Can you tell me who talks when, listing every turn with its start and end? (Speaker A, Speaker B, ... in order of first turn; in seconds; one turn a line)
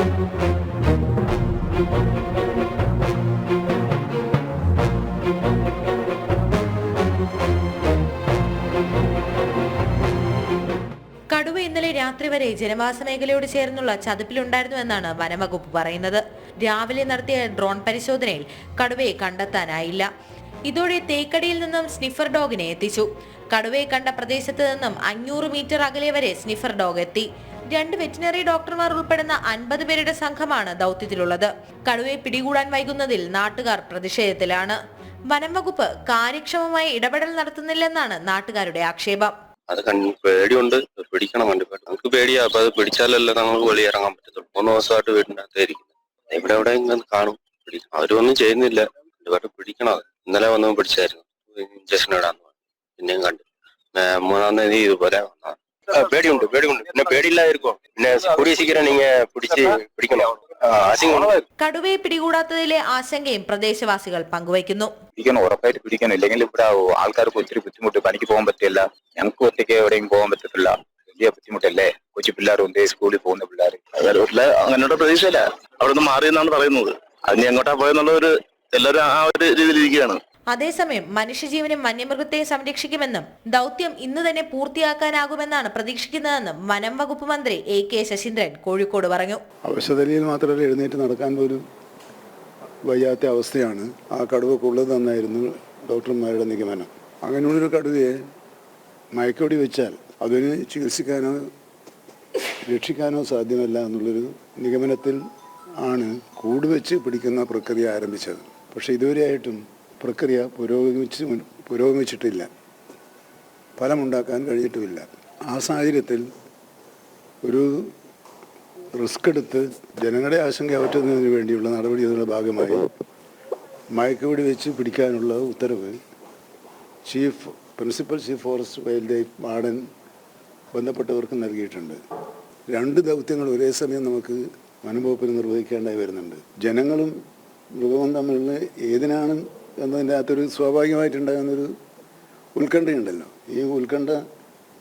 Speaker A: 11.3-20.1
Speaker A: 20.7-34.8
Speaker A: 35.3-39.3
Speaker B: 39.7-61.5
Speaker A: 61.6-65.0
Speaker C: 65.2-73.8
Speaker D: 74.0-80.2
Speaker A: 80.5-89.4
Speaker E: 89.7-91.6
Speaker E: 92.9-98.2
Speaker E: 99.1-101.5
Speaker E: 102.6-105.2
Speaker E: 105.8-112.5
Speaker E: 113.8-116.2
Speaker E: 117.4-117.9
Speaker E: 119.0-122.9
Speaker E: 123.9-126.0
Speaker E: 127.1-129.8
Speaker E: 130.7-132.0
Speaker E: 132.7-137.2
Speaker E: 137.8-141.7
Speaker E: 142.6-144.2